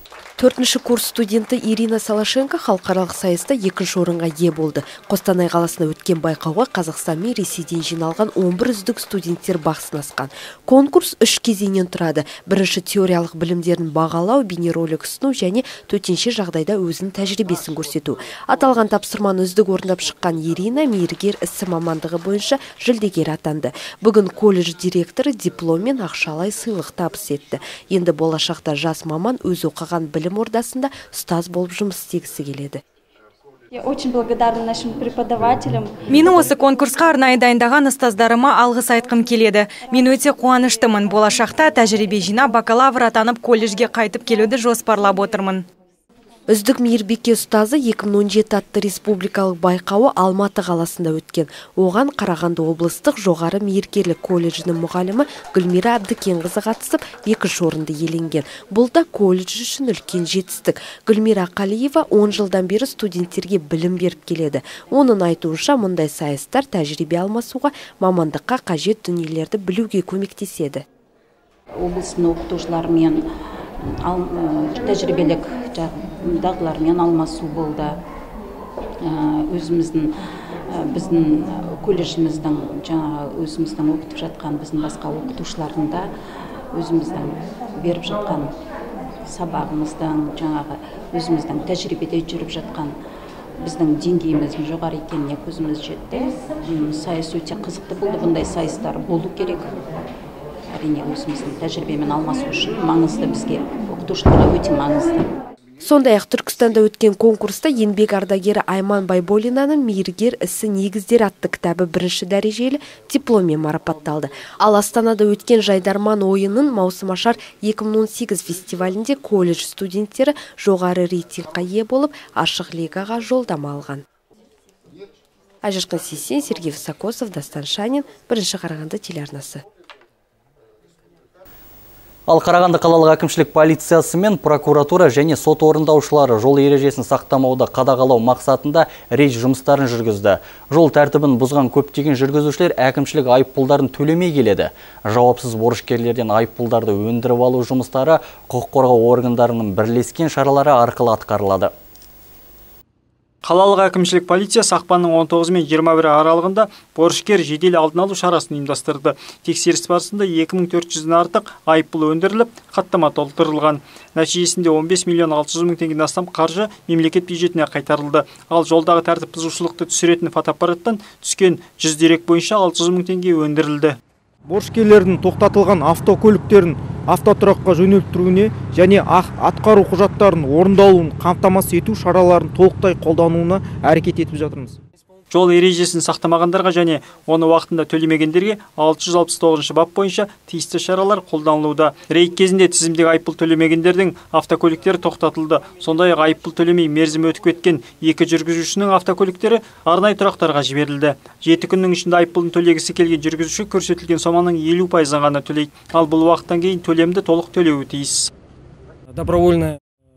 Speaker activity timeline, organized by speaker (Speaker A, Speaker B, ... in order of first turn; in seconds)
Speaker A: 0.4-32.8, 46.5-70.8, 105.8-124.0, 125.6-129.6
Speaker B: 33.7-36.0
Speaker C: 36.1-45.6
Speaker D: 71.7-73.2, 74.0-78.0, 79.0-80.1, 80.7-86.1, 86.7-88.5, 89.2-92.9, 93.6-99.7, 100.7-105.3
Speaker E: 132.3-151.7
Speaker F: 153.4-174.0, 185.3-208.3
Speaker G: 174.5-184.7